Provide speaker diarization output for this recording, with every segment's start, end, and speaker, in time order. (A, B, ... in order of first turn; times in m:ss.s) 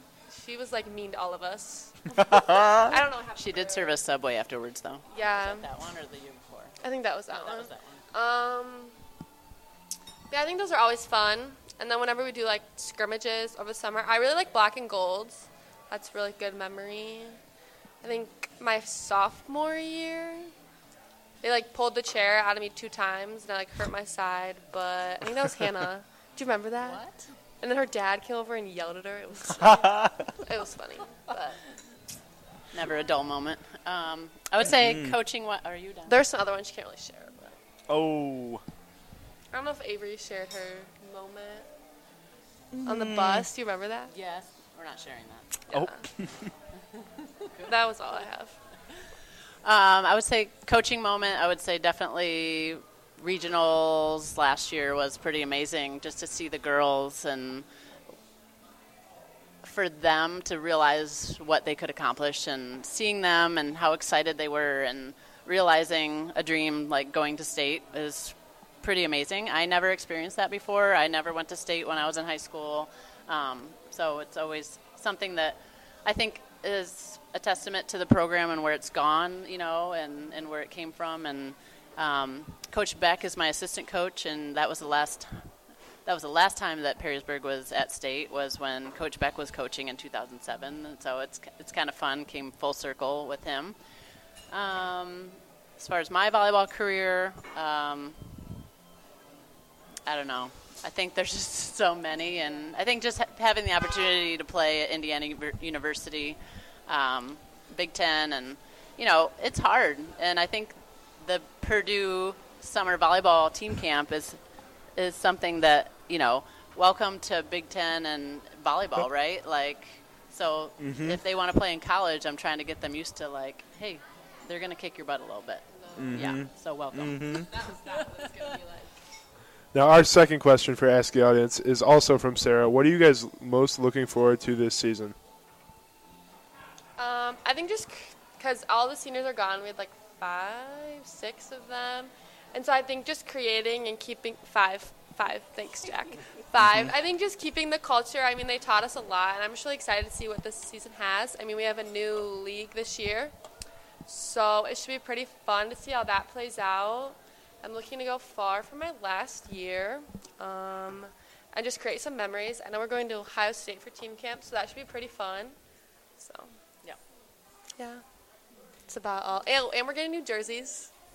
0:00.3-0:04.0 A
0:02.1-0:03.0 B
0:03.4-0:06.8 C
0:05.1-0:05.7 A
0:06.8-0:08.9 A
0:07.3-0:08.0 C
0:10.3-0:17.4 A
0:18.0-0:20.5 A
0:21.4-0:27.0 A
0:26.8-0:27.3 C
0:27.6-0:31.6 A
0:29.6-0:30.2 B
0:32.7-0:36.2 C
0:34.6-0:35.2 B
0:36.1-0:37.6 A
0:37.9-0:38.6 B
0:39.5-0:41.7 A
0:42.7-0:43.5 B
0:42.8-0:44.1 A
0:44.1-0:45.7 C
0:45.7-0:46.0 A
0:45.7-0:46.5 B
0:46.9-0:47.7 C
0:47.6-0:48.5 A
0:49.6-0:57.6 C
0:59.6-1:25.5 C
1:26.0-1:33.8 C
1:34.5-1:38.5 C
1:40.1-1:54.4 C
1:55.0-2:08.2 C
2:00.8-2:01.2 B
2:05.8-2:06.3 A
2:06.0-2:07.5 B
2:07.4-2:08.9 A
2:09.7-2:15.2 D
2:17.0-2:33.3 A
2:26.6-2:26.9 B
2:34.0-2:45.6 A
2:46.2-2:46.5 A
2:47.8-2:48.0 A
2:48.9-2:50.9 A